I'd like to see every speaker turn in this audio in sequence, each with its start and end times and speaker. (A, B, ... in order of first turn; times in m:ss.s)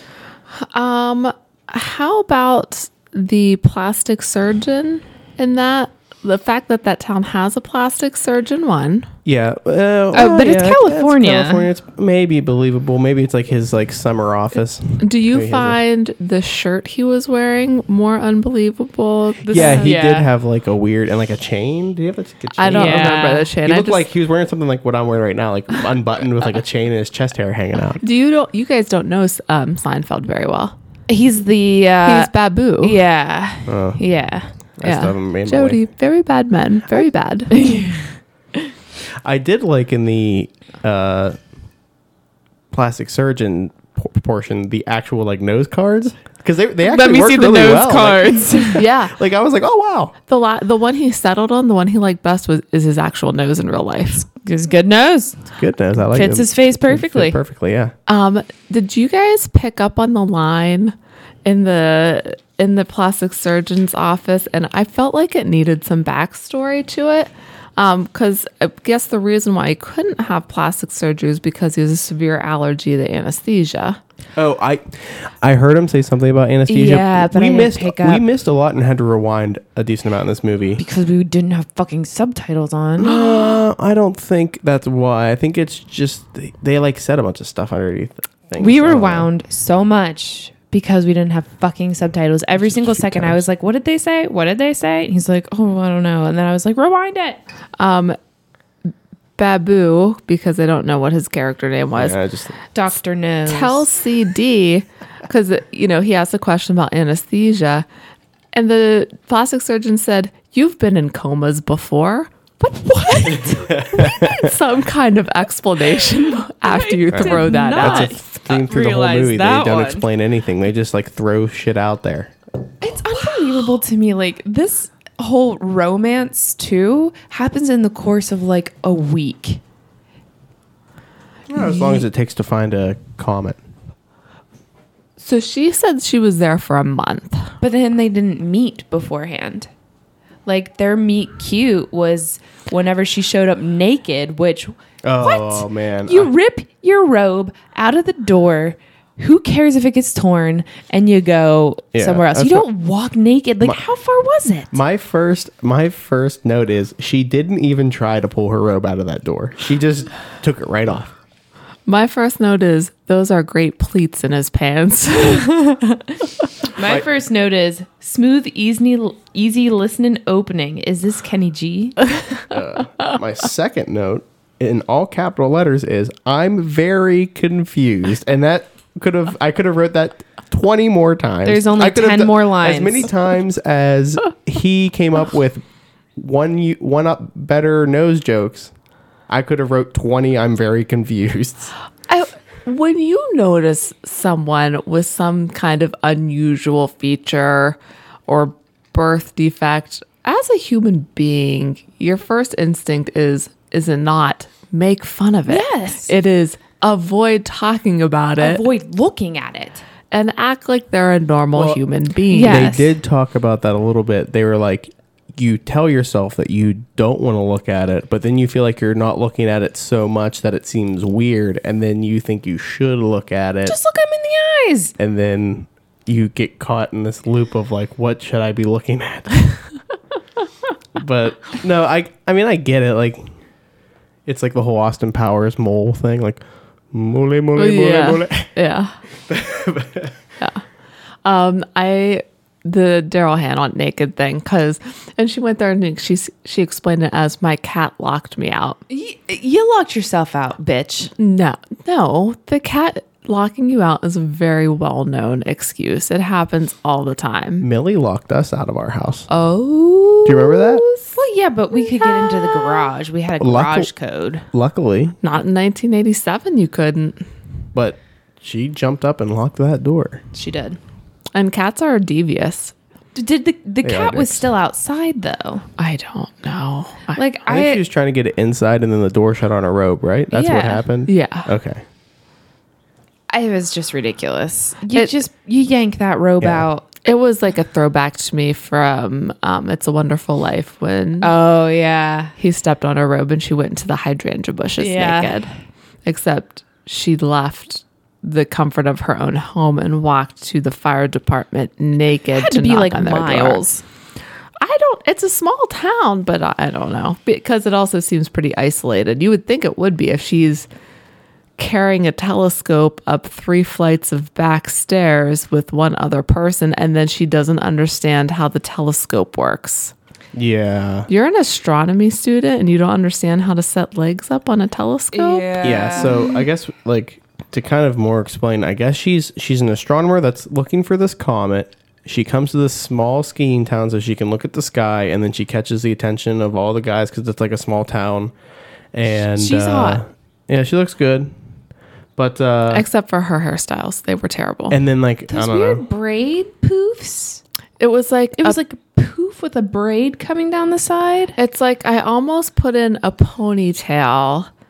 0:00.5-0:09.1 A
0:09.2-0:15.8 B
0:10.1-0:11.7 C
0:15.0-0:20.0 A
0:19.5-0:20.3 C
0:19.5-0:28.0 B
0:22.6-0:24.1 A
0:22.7-0:23.5 C
0:28.0-0:30.8 A
0:31.1-0:34.5 C
0:32.0-0:33.0 A
0:33.7-0:34.0 B
0:34.8-0:35.8 B
0:34.8-0:37.8 A
0:37.5-0:38.1 C
0:39.2-0:41.4 B
0:42.7-0:50.2 B
0:46.9-0:48.8 C
0:48.8-0:49.1 A
0:50.3-0:54.2 A
0:54.2-0:55.4 C
0:55.5-0:57.9 B
0:56.0-0:57.4 C
0:58.1-1:14.0 A
1:14.4-1:20.8 B
1:16.7-1:18.2 C
1:20.8-1:23.2 C
1:23.0-1:29.3 B
1:28.6-1:37.4 C
1:32.6-1:33.4 B
1:37.8-1:38.2 A
1:39.4-1:42.2 A
1:42.0-1:42.6 B
1:42.7-1:43.9 C
1:43.5-1:47.9 A
1:48.5-1:52.3 A
1:52.6-1:53.8 C
1:53.0-1:58.4 A
1:53.3-1:54.6 B
1:56.6-2:00.1 C
1:57.1-2:02.3 B
2:02.8-2:09.6 C
2:11.5-2:13.6 B
2:11.6-2:12.0 C
2:15.2-2:17.6 A
2:17.6-2:19.7 C
2:20.5-2:34.8 C
2:25.0-2:26.3 B
2:32.0-2:32.7 B
2:34.7-2:41.1 B
2:41.9-2:45.6 A
2:46.7-2:52.1 C
2:52.5-3:05.6 B
3:01.4-3:03.1 C
3:06.2-3:08.7 B
3:09.3-3:11.7 B
3:12.1-3:28.6 A
3:25.5-3:26.1 C
3:28.4-3:29.8 C
3:30.1-3:32.8 A
3:31.5-3:31.8 B
3:32.3-3:32.9 C
3:32.4-3:43.8 B
3:43.6-3:44.9 C
3:45.0-3:49.6 B
3:51.0-3:53.3 B
3:54.3-3:58.5 B
3:57.6-3:58.9 A
3:59.3-4:00.2 B
4:01.2-4:08.8 A
4:08.9-4:11.1 C
4:11.2-4:17.7 A
4:17.6-4:19.3 B
4:19.6-4:21.1 A
4:20.2-4:20.8 B
4:21.1-4:24.4 C
4:21.7-4:22.9 A
4:23.4-4:23.9 B
4:24.5-4:25.2 B
4:25.2-4:27.2 A
4:27.7-4:30.2 B
4:30.3-4:30.8 C
4:31.4-4:32.7 A
4:33.2-4:35.6 C
4:33.8-4:34.5 B
4:35.8-4:37.2 A
4:37.2-4:37.8 C
4:37.5-4:41.8 B
4:40.3-4:40.8 C
4:41.1-4:41.5 A
4:43.3-4:46.8 C
4:46.4-4:46.7 B
4:47.0-4:51.3 A
4:51.2-4:52.4 C
4:52.4-4:55.5 A
4:54.8-4:55.4 C
4:56.0-5:03.7 A
5:02.3-5:03.8 C
5:04.6-5:10.7 A
5:11.6-5:19.9 A
5:20.4-5:21.1 B
5:21.1-5:26.2 A
5:25.1-5:26.3 C
5:25.6-5:38.3 B
5:38.9-5:41.3 B
5:39.4-5:40.0 C
5:42.2-5:42.8 B
5:42.7-5:44.8 A
5:44.7-5:45.8 B
5:45.3-5:47.4 C
5:47.8-5:48.6 A
5:48.4-5:51.4 C
5:51.4-5:54.5 A